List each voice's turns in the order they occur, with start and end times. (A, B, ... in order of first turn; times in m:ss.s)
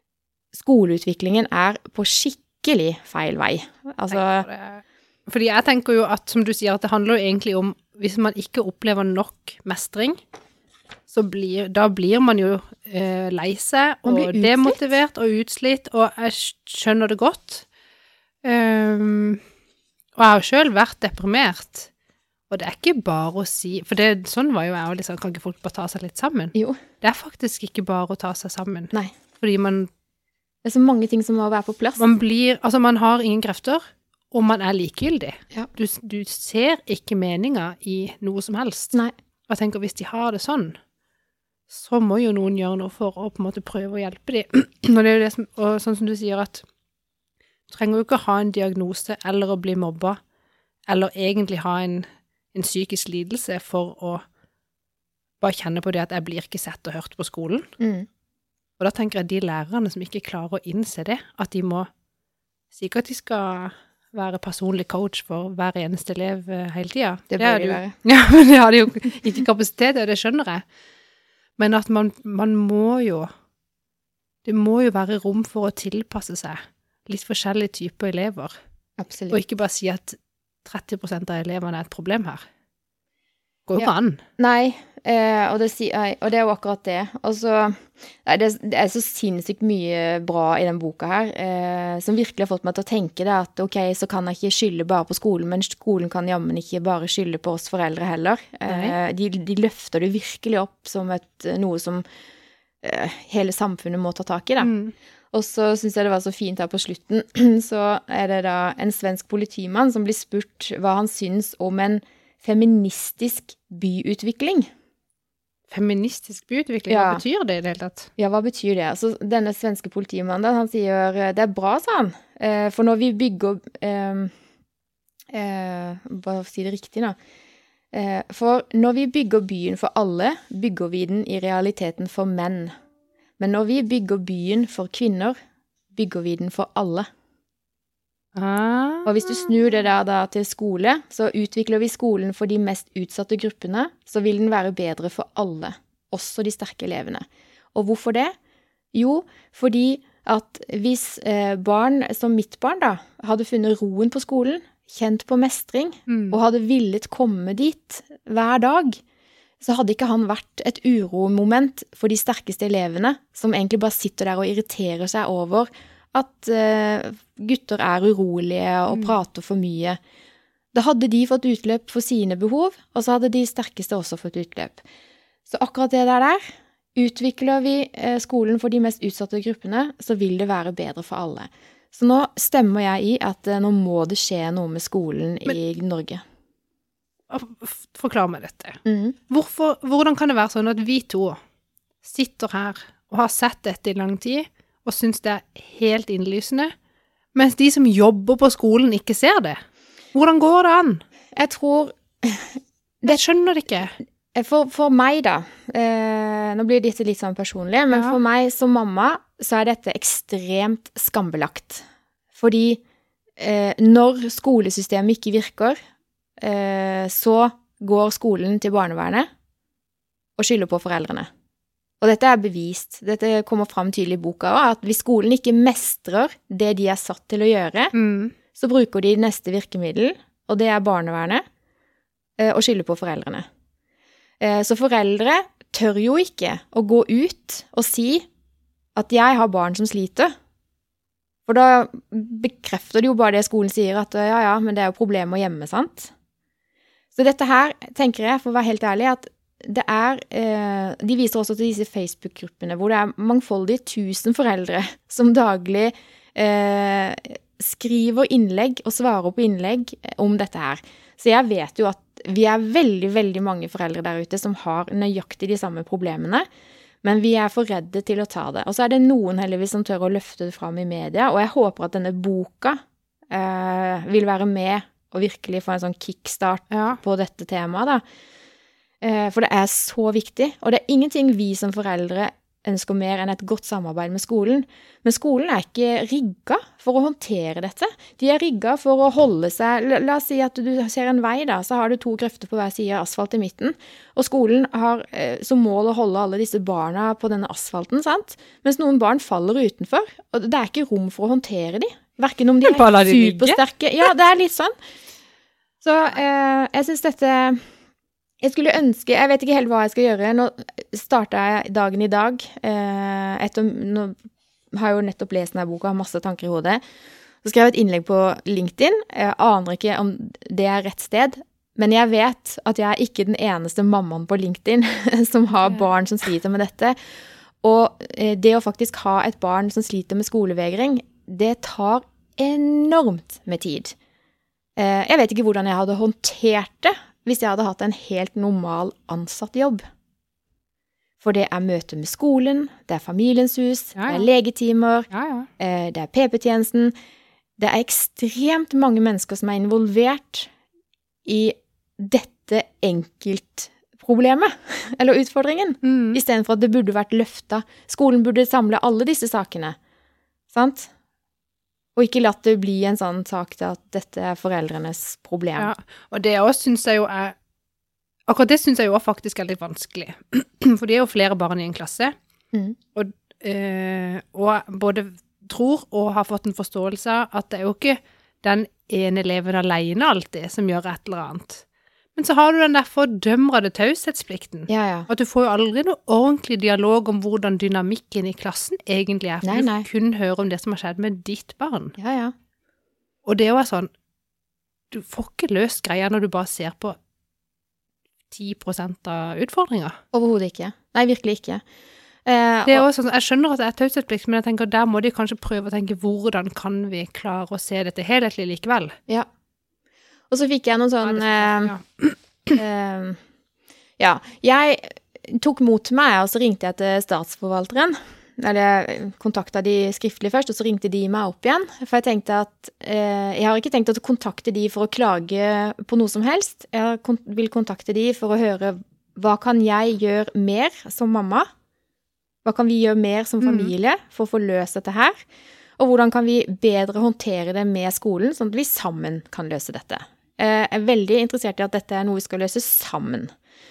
0:00.5-0:04.5 A
0:04.1-0:10.2 B
0:11.1-0:17.6 B
0:14.0-0:14.8 A
0:18.4-0:19.4 B
0:20.2-0:21.9 B
0:22.5-0:29.9 B
0:26.5-0:26.8 A
0:30.6-0:32.0 A
0:32.0-0:39.0 B
0:39.5-0:40.8 B
0:41.7-0:46.6 B
0:47.7-0:50.2 B
0:50.9-0:54.2 B
0:55.4-0:57.7 B
0:57.8-0:58.1 A
0:58.8-1:01.9 B
1:02.7-1:10.6 B
1:07.3-1:07.9 A
1:11.6-1:13.3 B
1:14.4-1:18.5 B
1:19.0-1:19.4 A
1:19.3-1:22.4 B
1:23.7-1:24.2 B
1:23.8-1:42.0 A
1:38.7-1:39.0 B
1:42.8-1:44.7 A
1:44.6-1:44.9 B
1:45.3-1:54.7 A
1:55.7-1:58.1 B
1:56.9-1:57.2 A
1:58.2-2:04.3 A
2:05.3-2:07.2 A
2:07.9-2:12.7 A
2:13.4-2:15.4 A
2:15.9-2:17.1 A
2:18.3-2:19.5 B
2:19.0-2:28.3 A
2:28.9-2:39.0 A
2:36.1-2:36.4 B
2:39.6-2:50.0 A
2:48.9-2:49.1 B
2:50.7-2:54.8 A
2:55.5-2:56.4 A
2:57.0-3:06.2 A
3:07.3-3:11.4 B
3:08.8-3:09.2 A
3:12.0-3:16.7 B
3:17.3-3:19.6 B
3:20.1-3:21.0 B
3:21.3-3:23.2 A
3:23.0-3:24.0 B
3:24.3-3:31.8 A
3:27.9-3:28.2 B
3:32.3-3:32.8 A
3:33.4-3:35.8 A
3:36.4-3:39.3 A
3:40.4-3:41.3 A
3:42.0-3:47.9 A
3:47.9-3:48.3 B
3:48.5-3:51.4 A
3:52.4-3:53.4 A
3:54.4-3:58.2 A
3:59.0-4:00.3 A
4:01.4-4:06.1 A
4:07.1-4:26.4 A
4:27.0-4:38.0 A
4:36.7-4:37.0 B
4:39.0-5:04.7 A
5:02.6-5:03.6 B
5:05.8-5:07.6 A
5:08.4-5:14.2 A
5:14.7-5:16.8 A
5:17.4-5:27.0 A
5:27.6-5:33.9 A
5:34.8-5:39.8 A
5:41.2-5:45.1 A
5:44.0-5:44.3 B
5:45.1-5:45.5 B
5:45.6-5:46.9 A
5:47.6-5:50.5 A
5:51.2-5:59.8 A
5:55.8-5:56.2 B
6:00.5-6:00.9 A
6:02.0-6:05.7 A
6:05.6-6:07.3 B
6:08.3-6:12.1 B
6:12.9-6:21.6 B
6:22.2-6:32.0 B
6:24.7-6:25.1 A
6:29.4-6:29.9 A
6:32.0-6:32.3 A
6:33.2-6:33.9 B
6:34.9-6:37.0 B
6:38.3-6:40.0 B
6:40.1-6:41.6 A
6:42.2-6:42.8 A
6:42.6-6:49.0 B
6:50.3-6:51.7 A
6:51.0-6:52.6 B
6:52.5-6:53.2 A
6:54.0-7:11.4 A
7:12.4-7:15.2 A
7:13.4-7:13.7 B
7:15.8-7:23.3 A